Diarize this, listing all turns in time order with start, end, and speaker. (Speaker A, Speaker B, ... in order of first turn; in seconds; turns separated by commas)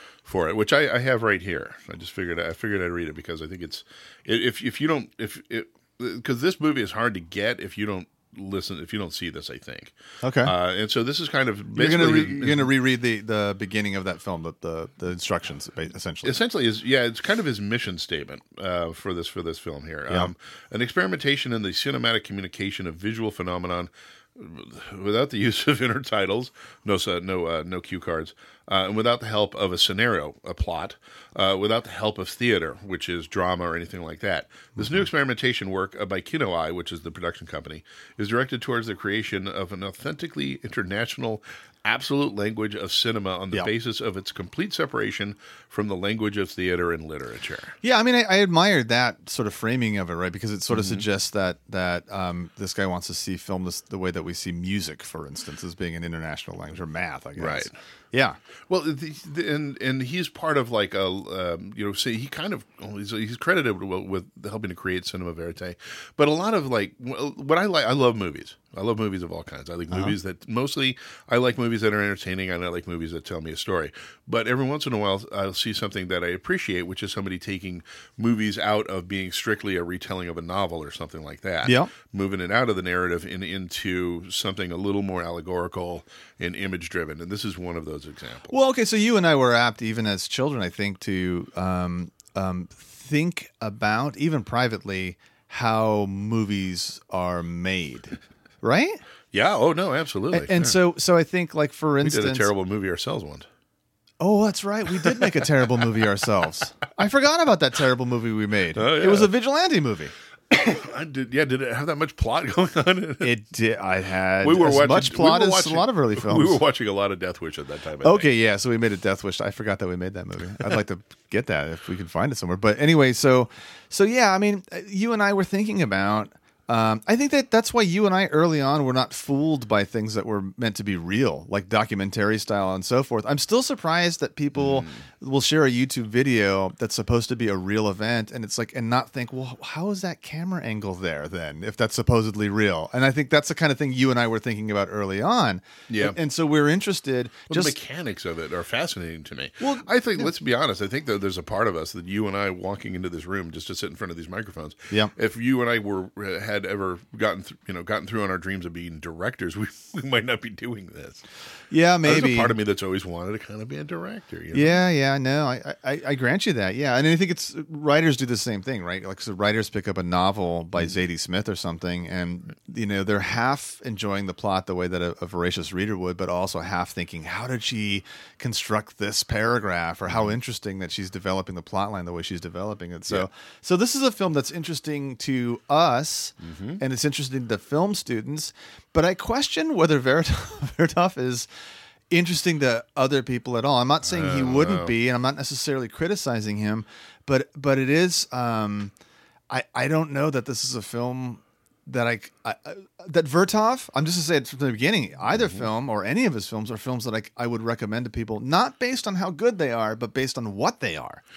Speaker A: 0.2-12.7, Speaker B: 10.2-10.5, Speaker B: 11.7-16.4, Speaker A: 16.2-47.7, Speaker B: 47.8-58.4, Speaker A: 50.7-51.0, Speaker A: 57.4-57.7, Speaker A: 58.7-88.5, Speaker B: 81.6-81.9, Speaker B: 88.5-99.0, Speaker A: 99.3-100.8, Speaker B: 100.3-102.5, Speaker A: 102.0-103.5, Speaker B: 104.2-110.1, Speaker A: 108.8-109.3, Speaker A: 110.5-113.3, Speaker B: 113.2-116.6, Speaker A: 114.4-118.3, Speaker B: 118.0-147.7, Speaker A: 134.6-135.0, Speaker A: 145.9-146.2, Speaker A: 147.5-161.2, Speaker B: 149.6-150.3, Speaker B: 161.7-162.6, Speaker A: 162.0-164.8, Speaker B: 164.5-191.5, Speaker A: 186.4-186.8, Speaker B: 192.1-198.9, Speaker A: 194.0-194.9, Speaker B: 199.5-211.2, Speaker A: 205.3-205.7